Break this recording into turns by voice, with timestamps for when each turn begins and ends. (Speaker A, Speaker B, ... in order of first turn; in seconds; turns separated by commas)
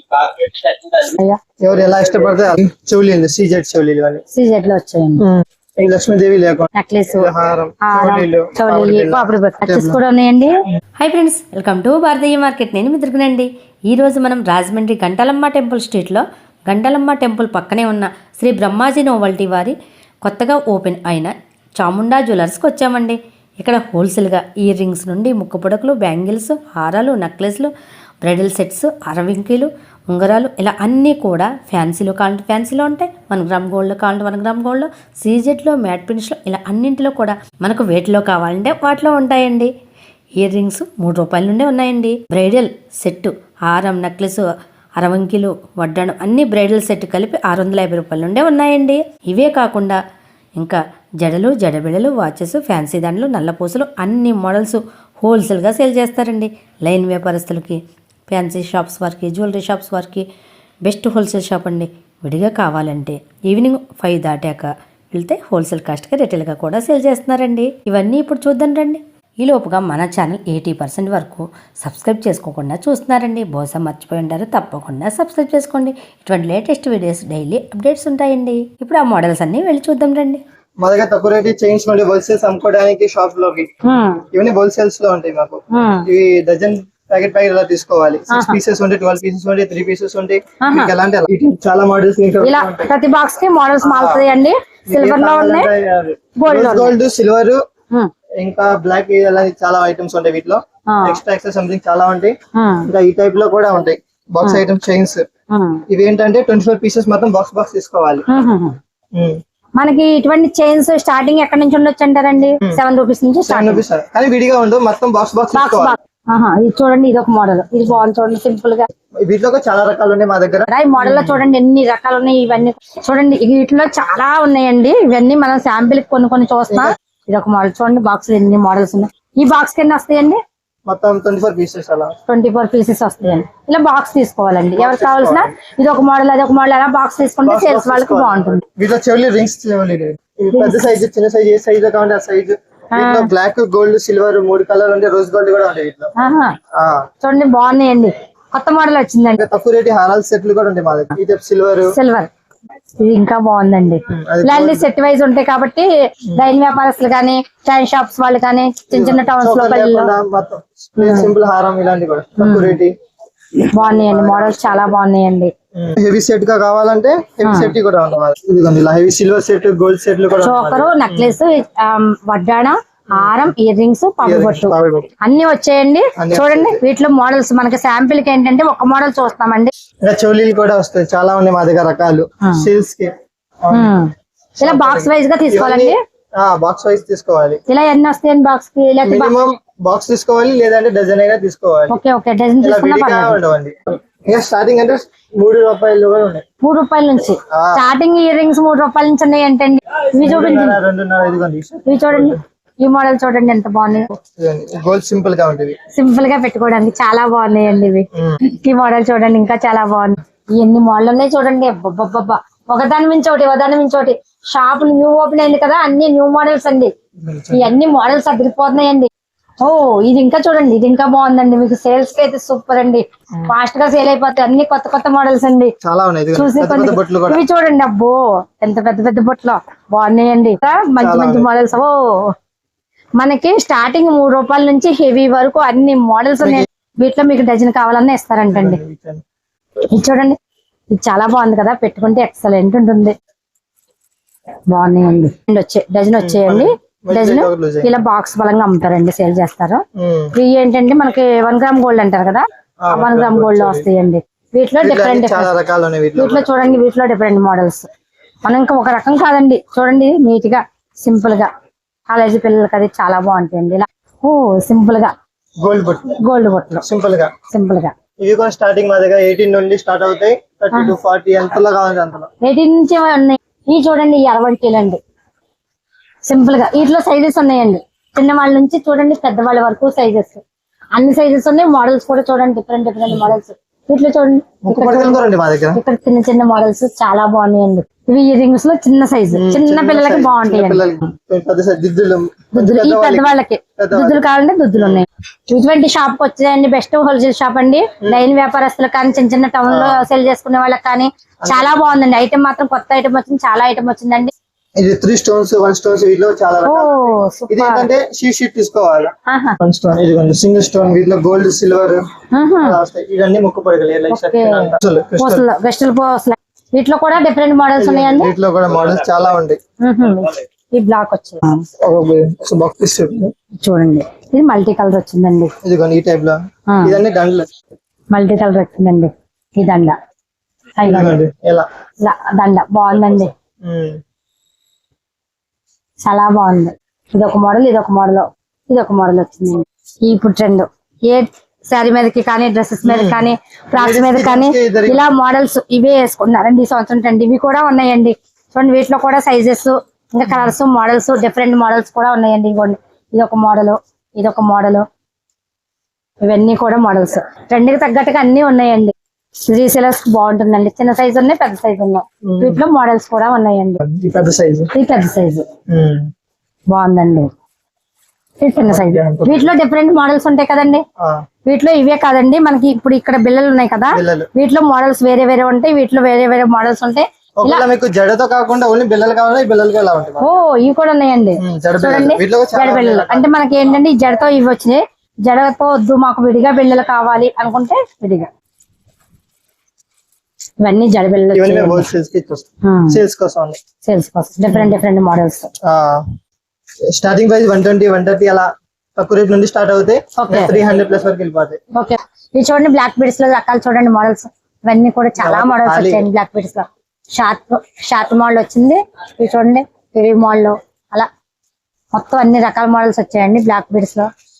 Speaker A: 0.1-0.8, Speaker B: 1.1-1.4, Speaker A: 1.6-4.2, Speaker B: 4.3-5.2, Speaker A: 5.2-10.0, Speaker B: 6.8-7.3, Speaker B: 7.8-10.5, Speaker C: 11.0-27.7, Speaker C: 28.2-39.7, Speaker C: 40.4-44.4, Speaker C: 45.0-50.0, Speaker C: 50.6-60.3, Speaker C: 60.8-80.4, Speaker A: 80.8-83.7, Speaker B: 83.8-84.2, Speaker A: 84.3-92.9, Speaker B: 85.7-86.0, Speaker B: 88.3-88.6, Speaker B: 90.6-90.9, Speaker B: 92.4-95.7, Speaker A: 93.8-94.3, Speaker A: 94.9-97.6, Speaker B: 96.4-96.9, Speaker A: 98.4-102.3, Speaker B: 100.9-101.2, Speaker B: 102.5-102.9, Speaker A: 102.9-105.2, Speaker B: 105.5-105.8, Speaker A: 105.9-108.2, Speaker B: 108.3-108.8, Speaker B: 109.8-113.8, Speaker A: 113.5-116.0, Speaker B: 115.5-118.8, Speaker A: 119.2-121.4, Speaker B: 120.7-130.4, Speaker A: 130.9-132.1, Speaker B: 132.3-138.6, Speaker A: 134.8-135.5, Speaker A: 137.4-146.1, Speaker B: 140.5-140.8, Speaker B: 142.9-143.3, Speaker B: 146.2-146.5, Speaker A: 146.7-147.0, Speaker B: 147.2-149.4, Speaker A: 149.4-151.9, Speaker B: 151.9-152.3, Speaker B: 153.0-160.1, Speaker A: 154.1-154.8, Speaker A: 158.9-162.9, Speaker B: 161.0-161.3, Speaker B: 162.4-162.8, Speaker B: 163.8-165.5, Speaker A: 163.8-164.9, Speaker A: 165.7-171.4, Speaker B: 167.4-167.7, Speaker B: 170.4-179.7, Speaker A: 173.2-173.5, Speaker A: 174.2-175.1, Speaker A: 176.2-176.8, Speaker A: 180.0-183.1, Speaker A: 183.6-183.9, Speaker B: 183.7-184.1, Speaker A: 184.6-187.6, Speaker B: 184.6-186.0, Speaker B: 187.7-189.3, Speaker A: 189.0-191.9, Speaker B: 191.9-193.4, Speaker A: 192.6-196.4, Speaker B: 196.6-200.8, Speaker A: 197.5-197.9, Speaker A: 200.2-202.4, Speaker B: 201.9-204.0, Speaker A: 204.3-205.8, Speaker B: 205.9-216.9, Speaker A: 217.2-217.7, Speaker B: 217.5-219.1, Speaker B: 219.6-225.7, Speaker A: 225.8-227.4, Speaker B: 226.3-231.9, Speaker A: 231.0-231.5, Speaker B: 233.2-238.8, Speaker A: 238.5-239.2, Speaker B: 239.9-240.4, Speaker B: 240.9-243.1, Speaker B: 244.7-249.8, Speaker A: 246.2-247.9, Speaker A: 250.0-250.3, Speaker B: 250.4-255.5, Speaker A: 252.8-253.9, Speaker A: 254.8-256.4, Speaker B: 256.2-257.9, Speaker B: 258.4-261.5, Speaker B: 262.1-265.1, Speaker A: 265.6-266.2, Speaker B: 266.2-266.8, Speaker A: 266.8-267.3, Speaker B: 267.5-267.9, Speaker A: 268.2-272.3, Speaker B: 272.4-275.0, Speaker B: 276.3-280.4, Speaker B: 280.9-285.2, Speaker A: 283.1-283.3, Speaker A: 284.6-285.8, Speaker B: 285.7-290.8, Speaker A: 289.3-294.2, Speaker B: 292.5-304.3, Speaker A: 294.7-295.0, Speaker A: 299.7-300.0, Speaker A: 301.4-301.8, Speaker A: 304.8-306.9, Speaker B: 306.6-307.9, Speaker A: 307.5-312.0, Speaker B: 309.3-309.6, Speaker B: 312.3-312.8, Speaker A: 312.6-315.5, Speaker B: 314.1-318.3, Speaker A: 317.8-319.6, Speaker B: 319.8-321.6, Speaker A: 321.8-323.3, Speaker B: 323.6-325.5, Speaker A: 325.6-327.5, Speaker B: 326.7-327.0, Speaker B: 328.1-329.9, Speaker B: 330.8-331.1, Speaker A: 330.8-331.7, Speaker B: 332.0-333.3, Speaker A: 333.6-334.0, Speaker B: 336.0-354.8, Speaker A: 342.8-345.1, Speaker A: 350.3-350.5, Speaker B: 356.2-358.9, Speaker B: 359.5-363.8, Speaker A: 362.2-362.6, Speaker A: 363.8-364.7, Speaker B: 364.7-365.4, Speaker A: 365.7-366.1, Speaker B: 366.7-367.3, Speaker B: 368.4-370.8, Speaker A: 368.7-369.5, Speaker B: 371.5-377.6, Speaker A: 373.9-374.3, Speaker A: 377.4-380.3, Speaker B: 380.2-388.3, Speaker A: 381.4-383.3, Speaker B: 390.6-391.9, Speaker A: 391.3-393.6, Speaker B: 392.6-393.0, Speaker B: 393.8-395.5, Speaker A: 394.5-394.8, Speaker A: 395.6-396.0, Speaker A: 396.9-401.6, Speaker B: 400.2-400.6, Speaker B: 401.7-411.1, Speaker A: 405.2-406.1, Speaker B: 411.9-414.1